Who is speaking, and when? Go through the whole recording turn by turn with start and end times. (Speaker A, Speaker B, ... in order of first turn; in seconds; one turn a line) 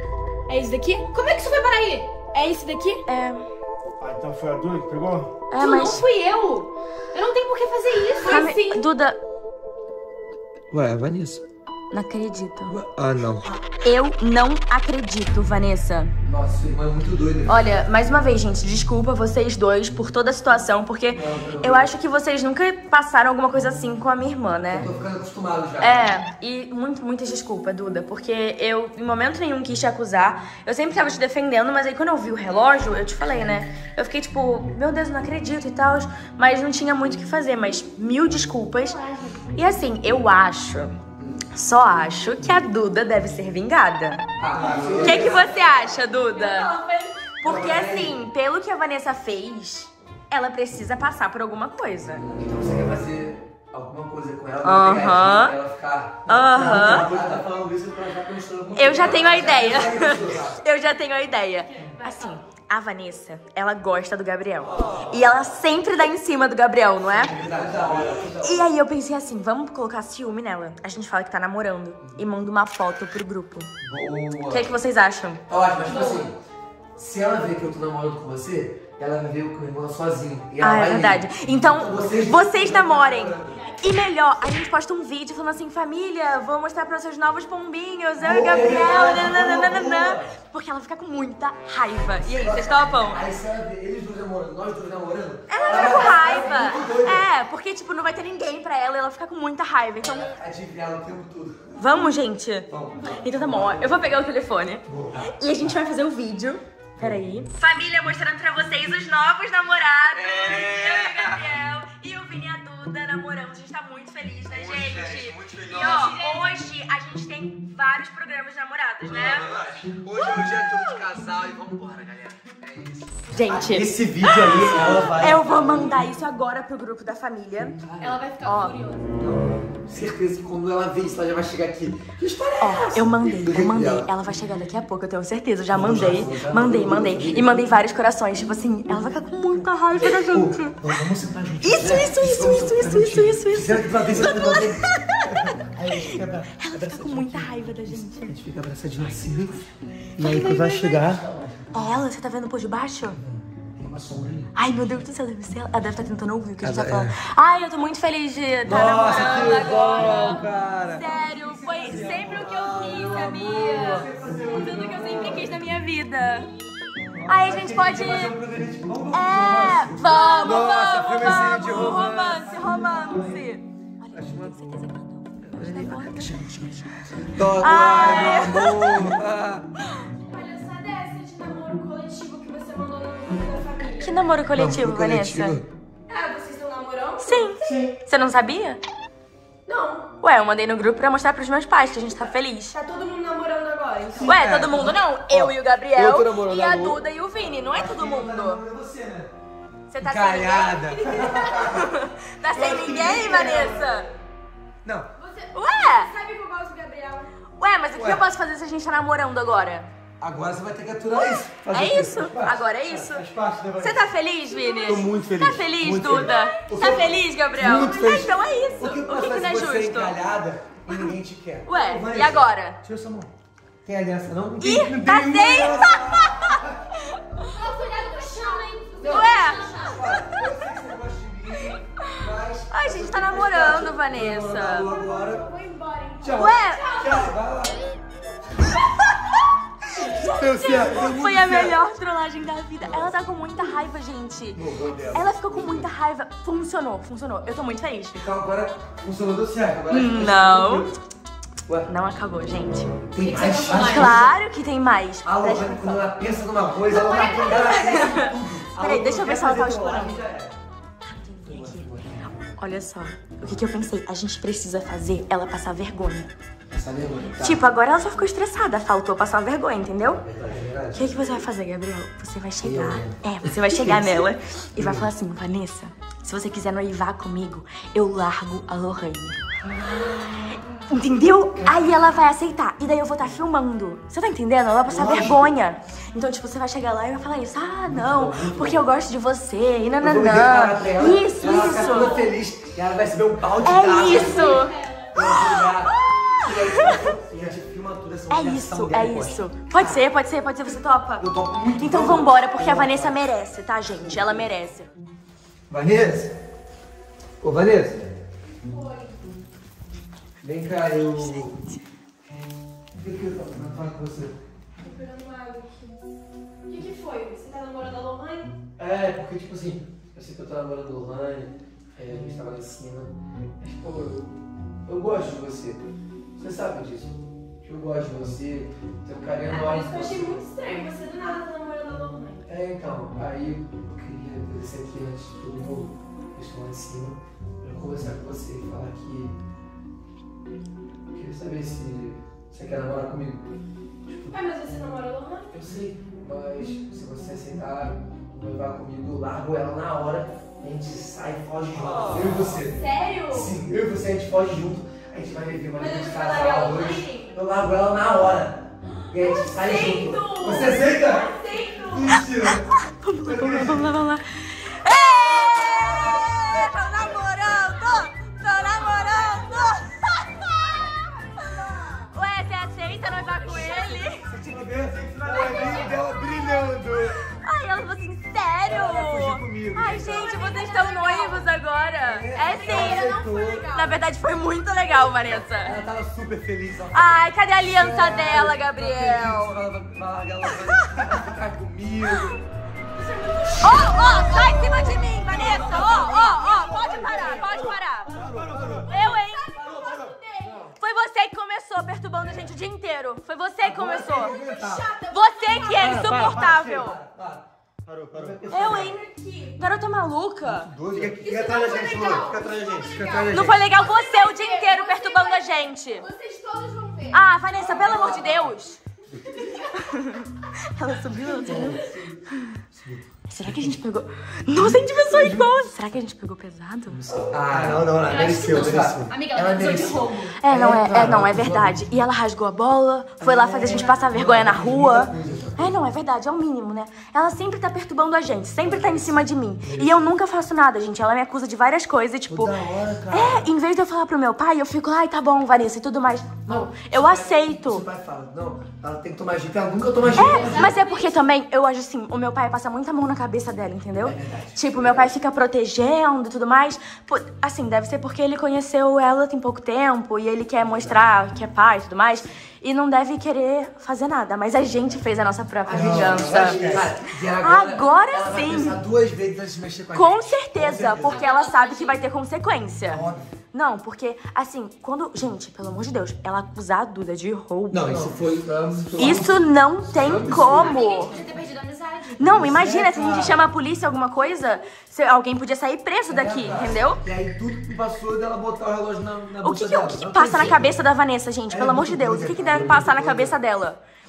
Speaker A: 0.5-3.0
Speaker B: 3.1-3.5
Speaker C: 4.0-5.8
Speaker B: 5.5-6.1
Speaker A: 5.6-8.8
Speaker B: 8.2-9.2
Speaker D: 10.7-11.4
Speaker B: 11.9-12.8
Speaker D: 12.7-13.5
Speaker B: 13.8-16.1
Speaker D: 16.2-17.8
Speaker B: 17.5-24.9
Speaker D: 21.1-21.9
Speaker D: 24.7-26.1
Speaker B: 25.8-39.0
Speaker A: 38.9-39.4
Speaker B: 39.5-40.9
Speaker B: 41.5-44.2
Speaker D: 44.4-45.8
Speaker C: 44.5-45.3
Speaker A: 44.9-47.3
Speaker B: 45.0-46.7
Speaker B: 47.4-52.2
Speaker D: 47.4-48.2
Speaker D: 52.2-60.6
Speaker B: 54.6-55.6
Speaker B: 56.3-57.1
Speaker C: 56.5-60.4
Speaker B: 58.7-67.4
Speaker A: 61.7-62.4
Speaker D: 64.7-65.2
Speaker D: 67.1-68.7
Speaker C: 67.4-68.3
Speaker B: 68.1-73.7
Speaker D: 73.8-74.7
Speaker B: 74.5-75.4
Speaker D: 75.5-76.4
Speaker A: 75.8-76.3
Speaker D: 77.0-83.7
Speaker B: 80.6-93.3
Speaker D: 88.2-90.3
Speaker D: 92.2-97.3
Speaker B: 95.5-100.4
Speaker A: 95.6-96.8
Speaker D: 100.1-101.8
Speaker B: 101.8-119.5
Speaker D: 102.7-104.1
Speaker D: 104.9-105.4
Speaker D: 110.1-111.5
Speaker D: 114.5-116.1
Speaker C: 114.9-115.3
Speaker A: 115.6-116.5
Speaker D: 119.1-126.0
Speaker B: 123.3-127.8
Speaker C: 124.5-125.1
Speaker D: 127.8-128.2
Speaker A: 128.0-129.2
Speaker B: 128.4-128.8
Speaker D: 129.2-134.1
Speaker B: 132.6-140.8
Speaker D: 135.7-137.7
Speaker D: 140.0-151.5
Speaker B: 141.6-148.4
Speaker C: 146.0-146.3
Speaker B: 150.2-150.9
Speaker C: 150.3-151.2
Speaker B: 151.7-153.2
Speaker D: 153.8-154.5
Speaker B: 154.6-166.5
Speaker D: 156.6-157.2
Speaker D: 158.7-161.1
Speaker C: 158.9-160.5
Speaker D: 161.7-165.5
Speaker C: 163.6-165.1
Speaker D: 167.2-173.4
Speaker B: 167.3-168.4
Speaker B: 169.1-176.4
Speaker C: 169.6-169.8
Speaker A: 170.0-173.4
Speaker C: 170.5-172.3
Speaker D: 174.2-174.6
Speaker C: 174.2-174.5
Speaker D: 175.5-176.5
Speaker C: 176.1-176.5
Speaker D: 177.3-179.6
Speaker B: 177.6-179.1
Speaker C: 177.9-179.1
Speaker A: 180.3-184.2
Speaker B: 183.9-185.6
Speaker D: 184.6-185.7
Speaker A: 186.1-187.9
Speaker B: 187.2-188.8
Speaker D: 187.7-187.9
Speaker A: 189.7-190.1
Speaker B: 190.2-192.8
Speaker A: 192.7-194.3
Speaker D: 194.1-197.0
Speaker B: 194.2-198.6
Speaker D: 197.6-199.3
Speaker B: 199.9-204.1
Speaker D: 200.0-201.9
Speaker A: 201.1-201.8
Speaker D: 202.5-203.8
Speaker A: 203.0-203.8
Speaker A: 205.2-207.3
Speaker B: 205.5-206.1
Speaker B: 207.6-209.9
Speaker D: 207.9-208.2
Speaker D: 210.2-214.0
Speaker B: 211.1-220.2
Speaker A: 214.5-215.3
Speaker D: 214.9-223.3
Speaker C: 214.9-215.7
Speaker A: 216.1-217.1
Speaker A: 217.6-218.7
Speaker B: 221.7-222.8
Speaker D: 223.8-226.7
Speaker B: 224.6-227.5
Speaker C: 225.3-225.6
Speaker A: 227.5-230.2
Speaker D: 229.0-235.5
Speaker B: 229.0-230.0
Speaker B: 231.7-234.9
Speaker A: 234.9-237.3
Speaker D: 236.2-237.9
Speaker B: 236.3-237.1
Speaker B: 239.9-248.3
Speaker D: 240.1-241.8
Speaker C: 240.4-241.1
Speaker D: 242.8-243.1
Speaker D: 244.6-245.9
Speaker D: 248.2-250.9
Speaker B: 249.9-250.9
Speaker B: 251.9-252.9
Speaker D: 253.1-254.3
Speaker A: 253.2-254.2
Speaker B: 253.7-256.1
Speaker D: 255.2-260.6
Speaker A: 256.9-258.1
Speaker B: 257.1-260.2
Speaker B: 261.1-266.3
Speaker D: 261.4-262.3
Speaker D: 266.7-267.6
Speaker B: 267.4-270.2
Speaker D: 270.2-271.1
Speaker B: 270.9-292.2
Speaker D: 272.6-275.1
Speaker D: 279.7-280.4
Speaker D: 281.6-281.9
Speaker D: 284.9-285.6
Speaker D: 287.9-288.9
Speaker D: 290.0-300.0
Speaker A: 291.6-292.3
Speaker B: 293.6-297.1
Speaker A: 293.9-295.4
Speaker B: 298.3-304.9
Speaker D: 301.2-303.2
Speaker D: 303.9-304.4
Speaker D: 305.7-306.3
Speaker D: 307.4-308.1
Speaker A: 308.5-309.2
Speaker D: 310.4-311.6
Speaker B: 311.1-311.8
Speaker D: 312.9-314.4
Speaker A: 314.8-316.0
Speaker A: 316.7-318.6
Speaker D: 318.8-324.3
Speaker D: 324.9-330.4
Speaker A: 329.5-332.4
Speaker D: 332.5-339.4
Speaker D: 341.1-343.5
Speaker D: 344.1-344.4
Speaker A: 344.3-345.5
Speaker D: 345.5-362.7
Speaker A: 352.7-353.6
Speaker A: 355.7-357.4
Speaker A: 359.0-362.2
Speaker B: 362.1-374.3
Speaker D: 363.3-363.9
Speaker A: 366.5-369.8
Speaker A: 370.6-372.1
Speaker A: 372.9-374.2
Speaker D: 374.3-377.2
Speaker C: 374.4-376.6
Speaker A: 375.3-376.3
Speaker B: 377.0-383.1
Speaker D: 378.6-380.3
Speaker A: 379.9-381.5
Speaker D: 382.0-383.7
Speaker A: 382.4-384.0
Speaker B: 383.7-385.8
Speaker D: 385.5-392.4
Speaker B: 386.9-389.6
Speaker B: 392.1-392.4
Speaker A: 392.9-397.6
Speaker B: 393.6-399.7
Speaker D: 396.8-397.2
Speaker D: 398.1-398.9
Speaker C: 398.1-398.7
Speaker A: 398.2-400.7
Speaker D: 399.6-400.2
Speaker B: 400.7-404.4
Speaker D: 403.6-404.9
Speaker A: 404.0-406.2
Speaker B: 405.1-407.0
Speaker C: 405.8-406.9
Speaker D: 405.8-407.4
Speaker C: 407.9-408.8
Speaker D: 408.1-409.0
Speaker B: 408.5-409.0
Speaker A: 408.7-409.6
Speaker B: 409.6-410.7
Speaker C: 410.6-413.5
Speaker D: 410.7-413.6
Speaker A: 411.2-418.3
Speaker B: 413.3-416.1
Speaker B: 417.1-418.8
Speaker D: 417.6-418.5
Speaker A: 419.4-419.7
Speaker B: 419.6-422.6
Speaker D: 421.4-422.2
Speaker A: 421.7-422.0
Speaker D: 422.8-423.8
Speaker B: 423.3-427.0
Speaker D: 424.6-425.5
Speaker C: 427.1-429.2
Speaker D: 427.1-431.9
Speaker A: 428.0-430.4
Speaker B: 430.4-442.6
Speaker D: 433.2-435.7
Speaker D: 438.6-440.1
Speaker D: 442.3-443.5
Speaker B: 443.1-447.9
Speaker D: 446.5-450.7
Speaker A: 450.1-451.3
Speaker B: 450.1-468.8
Speaker D: 454.0-455.1
Speaker D: 460.6-461.1
Speaker D: 465.7-471.2
Speaker C: 465.7-466.9
Speaker B: 469.9-478.1
Speaker A: 470.9-472.0
Speaker D: 472.9-473.2
Speaker D: 477.7-481.3
Speaker B: 479.0-481.1
Speaker A: 480.3-482.3
Speaker B: 482.2-487.0
Speaker D: 482.3-483.5
Speaker D: 486.1-490.8
Speaker B: 489.4-493.8
Speaker D: 491.5-493.4